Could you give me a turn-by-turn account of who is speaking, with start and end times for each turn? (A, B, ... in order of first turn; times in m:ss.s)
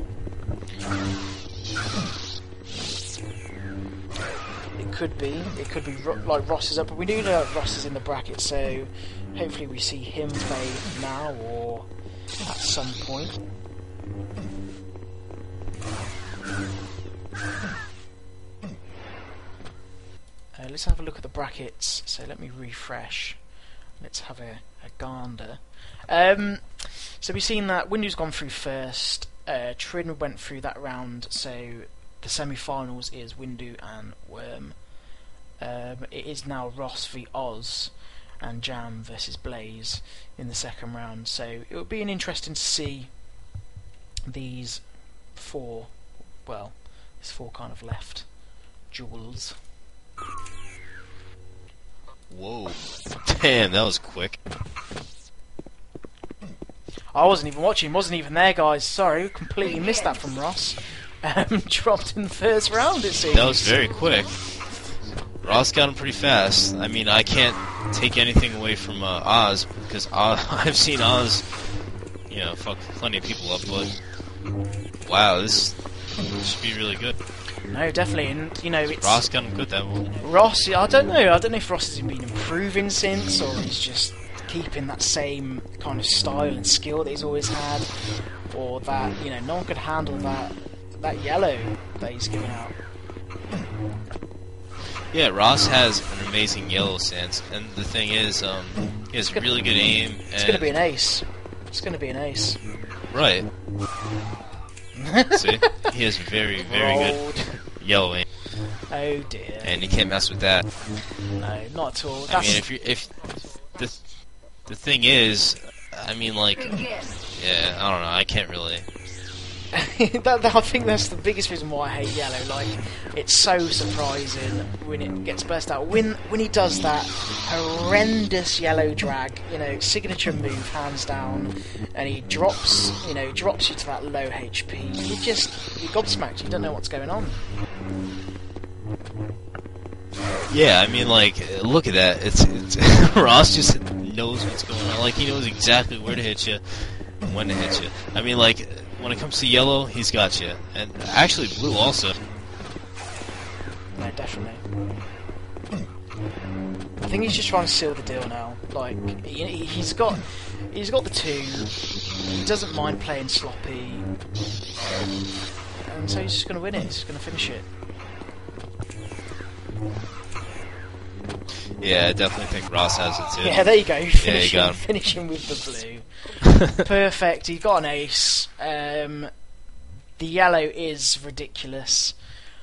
0:04.8-0:11.9 A
0:12.4-0:13.4 A
0:20.6-0:23.4 A
0:24.0-0:34.8 A
0:35.6-0:43.1 A
0:44.3-0:48.3 A
0:48.9-0:49.6 A
0:52.3-0:54.4 B
0:57.1-1:03.9 A
1:03.3-1:04.4 B
1:05.4-1:11.5 B
1:12.3-1:13.9 B
1:15.0-1:17.2 B
1:17.7-1:19.2 A
1:19.0-1:20.2 B
1:20.2-1:32.8 A
1:35.1-1:40.7 B
1:40.4-1:42.6 A
1:43.1-1:43.5 B
1:45.0-1:45.9 A
1:45.3-1:48.3 B
1:46.6-1:47.5 A
1:48.9-1:49.7 A
1:49.6-1:50.7 B
1:51.4-1:52.6 A
1:52.3-1:53.2 B
1:53.8-1:58.9 B
1:59.7-2:17.4 A
2:20.5-2:32.2 B
2:34.0-2:34.6 A
2:37.0-2:41.8 A
2:42.3-2:44.1 A
2:45.9-2:47.7 A
2:51.8-2:53.6 B
2:53.4-2:59.3 A
2:54.2-2:54.8 B
3:00.2-3:02.1 A